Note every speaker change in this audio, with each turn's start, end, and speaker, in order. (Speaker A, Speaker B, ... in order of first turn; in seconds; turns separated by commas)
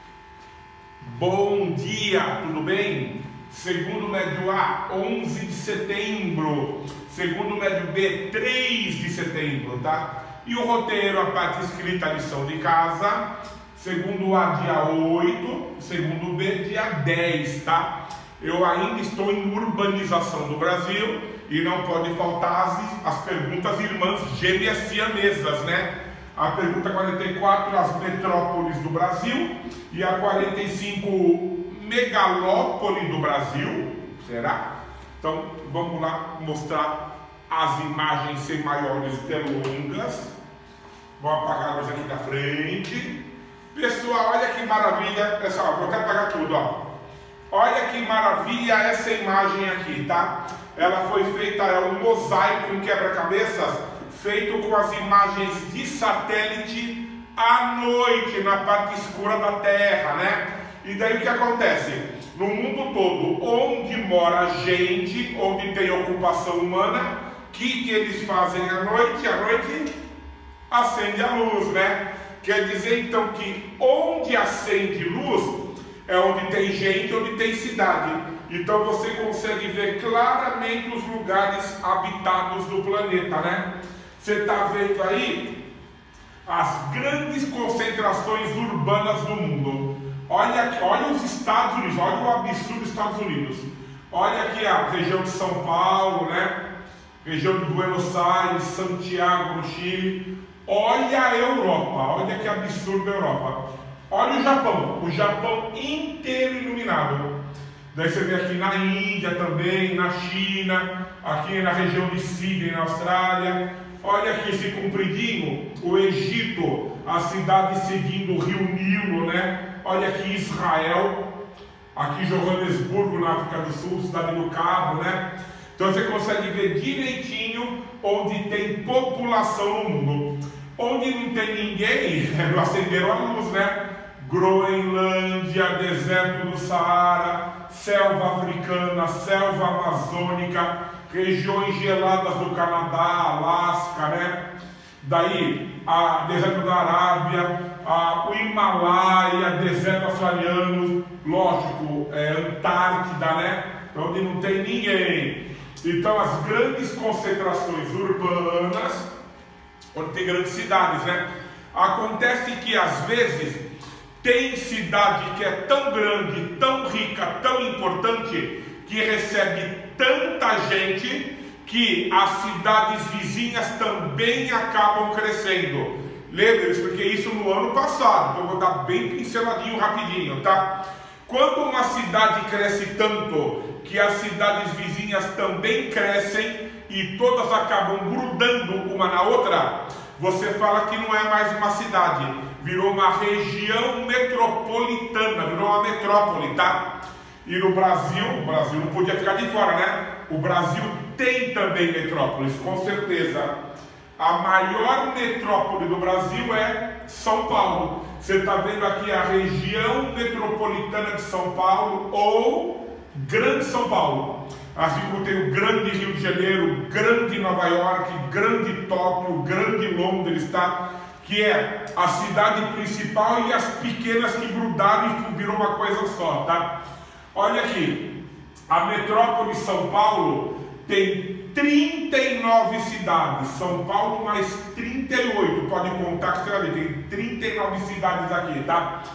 Speaker A: 1.0-34.6, Speaker A: 35.2-40.3, Speaker A: 41.2-43.2, Speaker A: 43.7-46.7, Speaker A: 47.5-69.9, Speaker A: 70.7-85.5, Speaker A: 86.5-96.5, Speaker A: 97.2-107.3, Speaker A: 107.9-121.2, Speaker A: 121.9-125.2, Speaker A: 125.8-144.4, Speaker A: 145.0-159.1, Speaker A: 159.9-163.6, Speaker A: 164.2-180.7, Speaker A: 181.2-196.8, Speaker A: 197.4-203.5, Speaker A: 204.2-226.7, Speaker A: 227.3-228.1, Speaker A: 228.7-238.9